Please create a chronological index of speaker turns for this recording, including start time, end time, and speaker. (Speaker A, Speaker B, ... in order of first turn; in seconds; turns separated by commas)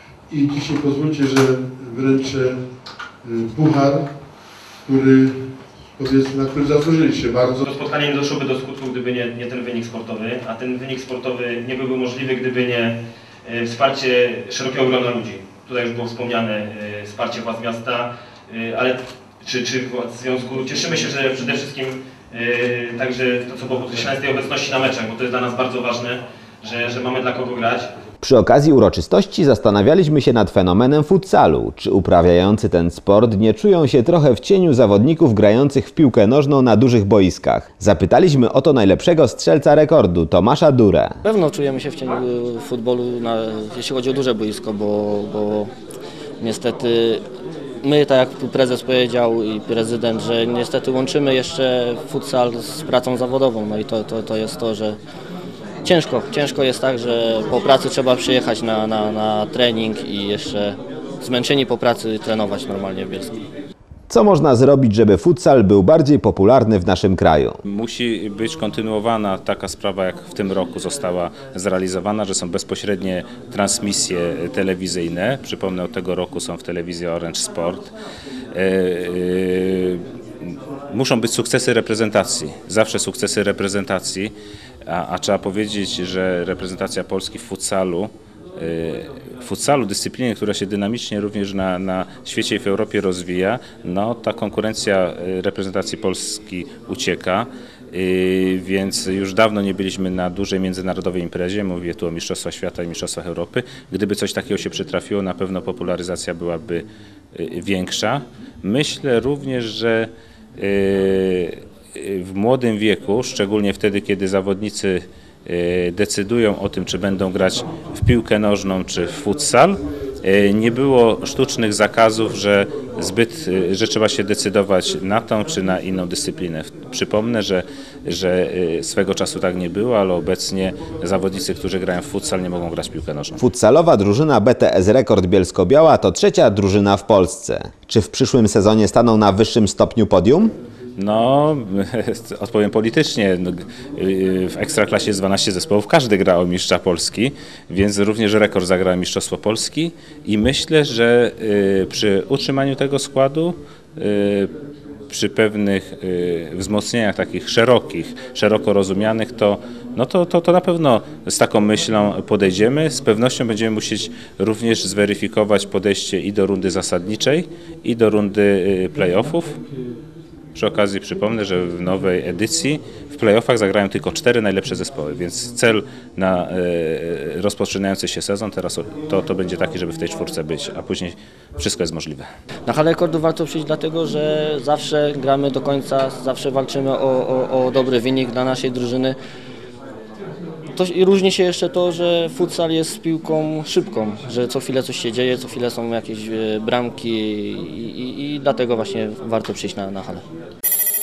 Speaker A: 0.3-2.6, Speaker A: 3.2-4.0, Speaker A: 4.8-5.4, Speaker A: 6.0-7.6, Speaker B: 7.6-27.9, Speaker C: 28.2-41.2, Speaker D: 41.2-45.7, Speaker D: 46.4-47.2, Speaker D: 47.8-55.0, Speaker D: 55.8-63.3, Speaker C: 64.1-67.6, Speaker E: 67.7-77.9, Speaker E: 78.5-80.0, Speaker E: 80.9-84.3, Speaker E: 84.9-133.4, Speaker C: 133.4-140.5, Speaker E: 141.0-154.5, Speaker E: 155.1-169.6, Speaker E: 170.5-182.3, Speaker D: 182.7-189.2, Speaker D: 190.8-200.2